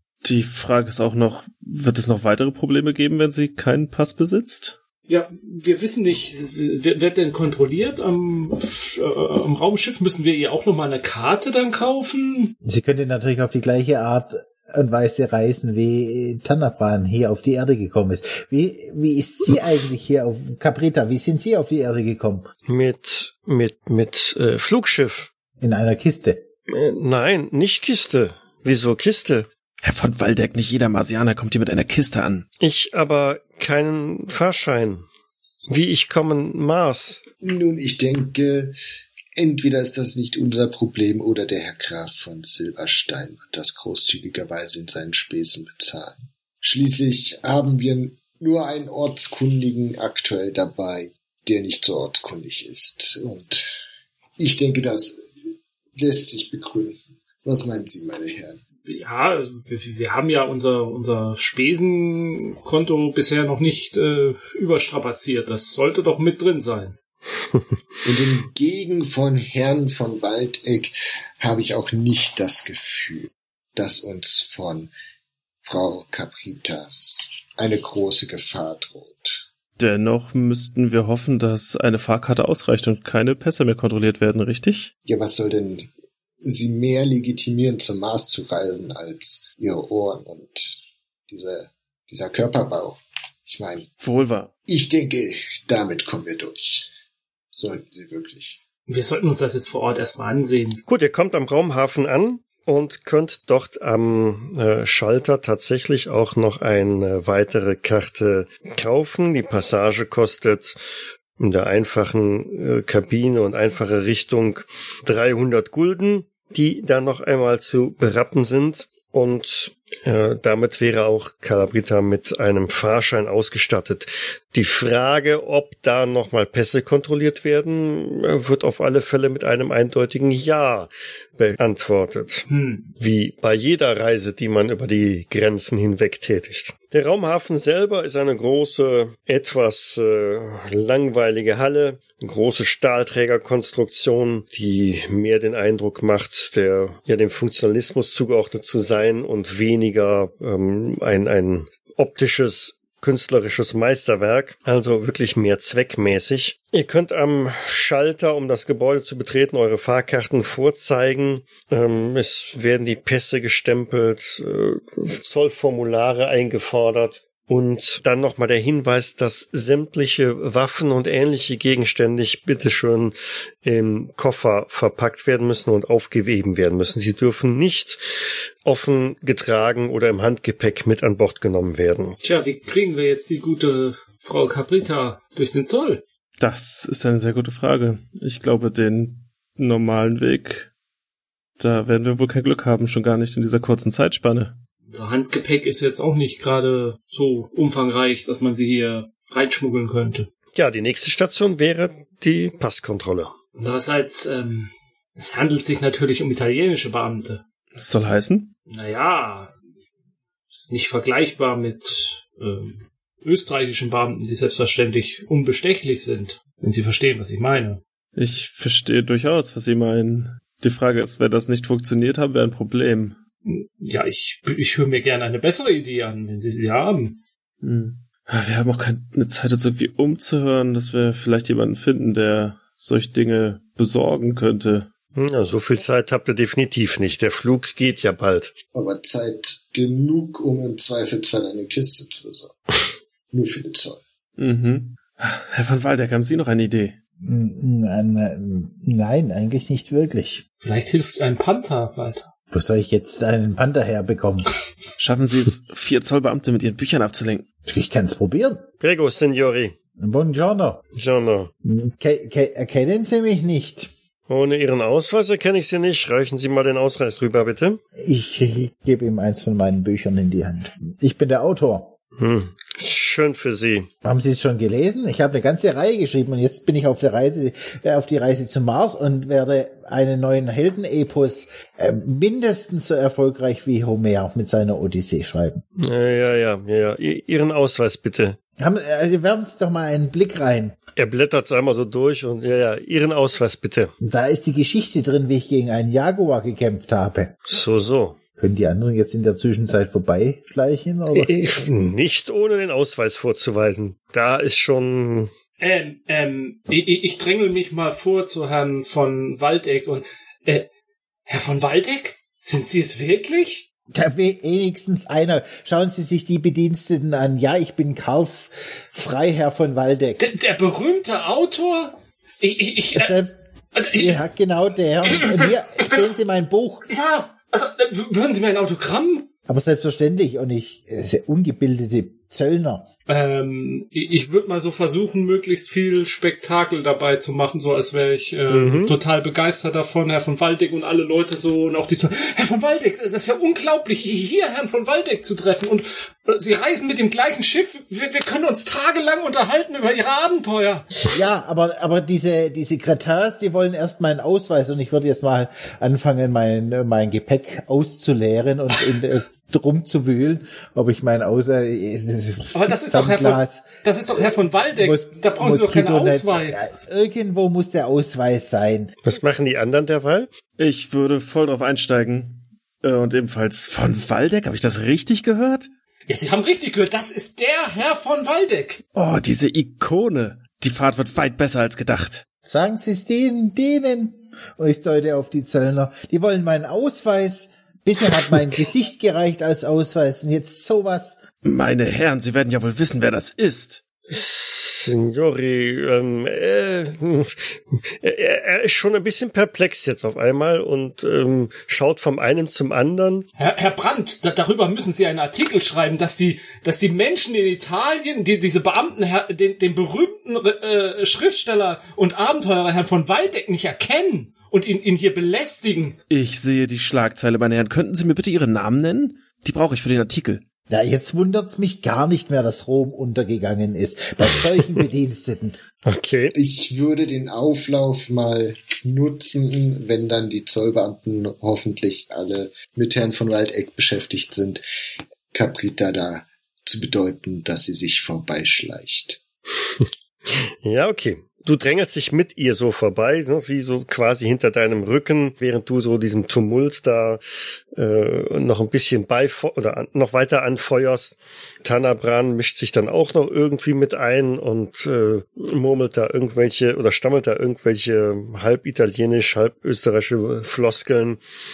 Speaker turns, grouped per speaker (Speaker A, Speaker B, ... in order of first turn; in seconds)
Speaker A: 0.2-4.8, 29.8-32.5, 79.8-84.9, 94.0-94.5, 186.4-190.7, 191.6-194.6, 207.7-208.5, 218.1-223.2, 227.6-234.9, 244.4-246.9, 255.0-257.4, 370.6-375.7, 378.9-382.2, 391.4-393.8, 416.1-420.4
Speaker B: 5.1-12.5, 58.9-67.0, 98.9-100.8, 132.5-132.9, 182.2-186.0, 194.9-200.3, 203.6-207.4, 208.7-209.5, 210.5-217.8, 223.4-227.2, 250.6-252.3, 305.6-310.7, 311.3-313.7, 320.2-323.1, 323.7-324.2, 325.0-326.0, 326.9-329.3, 333.1-350.9, 362.5-366.7, 376.1-378.8, 403.4-416.0
Speaker C: 12.6-22.5, 25.6-26.4, 247.2-250.4, 252.5-254.5, 257.6-258.6, 260.0-260.8, 261.6-263.9, 268.0-271.9, 274.0-285.6, 288.6-290.8, 294.0-297.3, 298.4-301.3, 313.9-320.3, 322.9-323.3, 323.9-326.9, 329.5-332.9, 351.1-368.9, 382.4-391.2, 420.7-425.6
Speaker D: 22.7-25.3, 26.7-29.5, 32.6-35.0, 35.7-37.2, 100.9-132.5, 133.0-182.2, 200.5-203.3, 235.1-238.5, 258.8-259.7, 260.9-261.5, 264.3-267.8, 272.2-273.9, 285.8-288.4, 290.9-293.9, 297.5-298.2, 301.1-305.3, 338.5-338.9, 369.0-370.3, 394.1-403.3, 425.9-426.3, 439.8-447.2, 447.7-461.2
Speaker E: 37.4-38.7, 39.4-53.7, 54.4-55.2, 55.9-58.6, 68.0-74.9, 75.6-79.4, 85.0-85.9, 86.4-93.9, 94.7-96.9, 97.5-98.6, 238.7-244.0, 426.3-434.6, 435.3-439.2